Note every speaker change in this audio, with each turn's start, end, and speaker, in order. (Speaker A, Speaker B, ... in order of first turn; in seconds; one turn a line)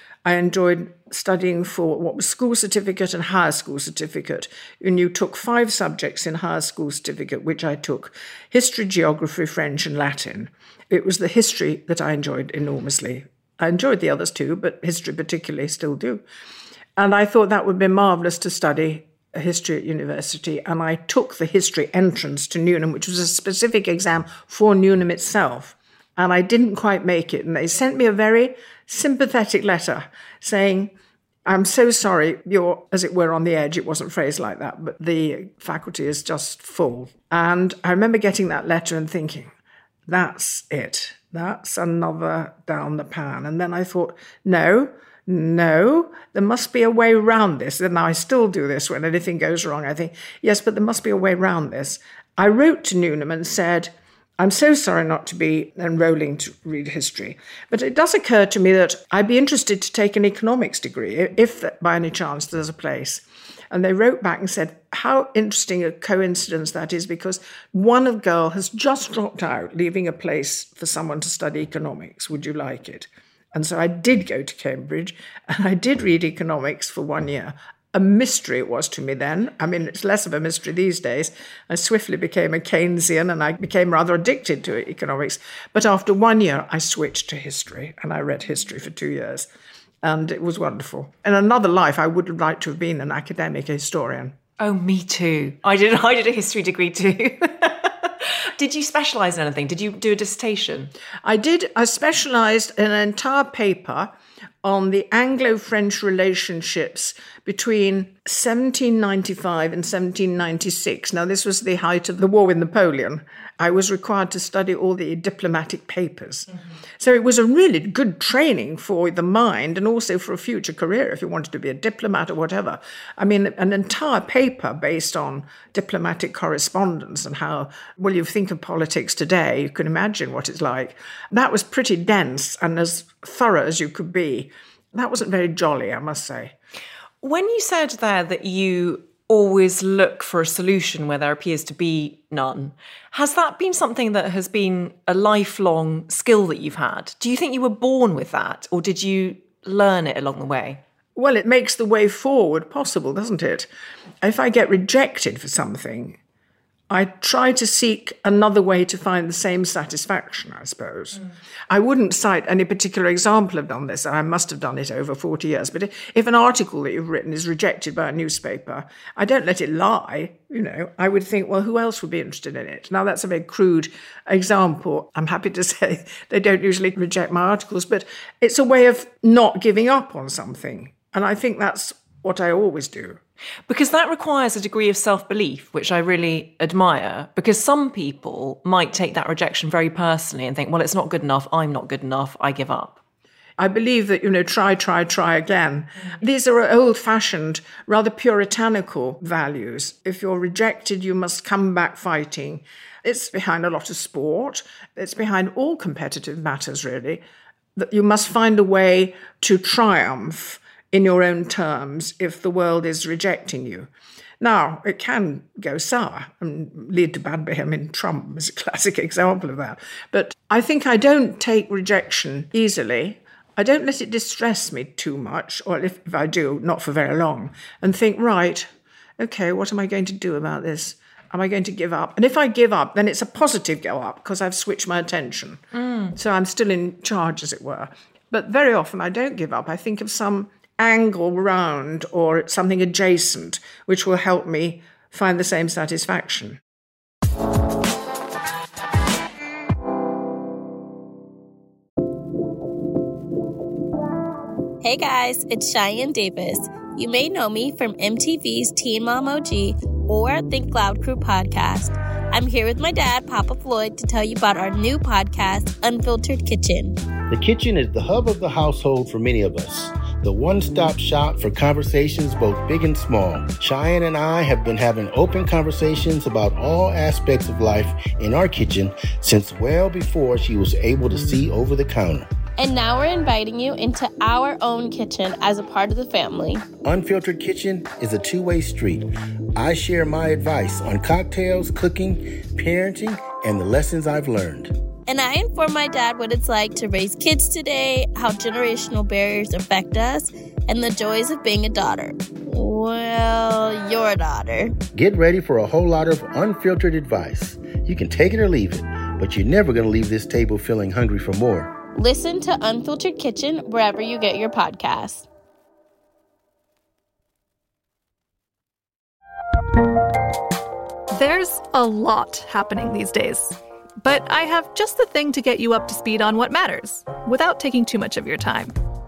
Speaker A: 0.2-16.2
Speaker A: 17.0-30.9
Speaker A: 31.5-39.5
Speaker A: 40.1-89.5
Speaker A: 90.0-94.4
Speaker B: 94.6-100.9
Speaker A: 101.2-136.5
Speaker B: 137.2-150.8
Speaker A: 151.2-153.7
Speaker A: 154.2-156.2
Speaker A: 156.9-183.2
Speaker B: 183.7-193.0
Speaker A: 193.6-207.2
Speaker A: 207.8-235.6
Speaker B: 235.8-236.1
Speaker A: 236.1-246.6
Speaker C: 254.8-267.0
Speaker D: 267.3-282.3
Speaker C: 282.6-286.7
Speaker D: 286.8-294.7
Speaker C: 295.1-304.7
Speaker D: 304.9-311.7
Speaker C: 312.0-315.3
Speaker E: 321.1-328.7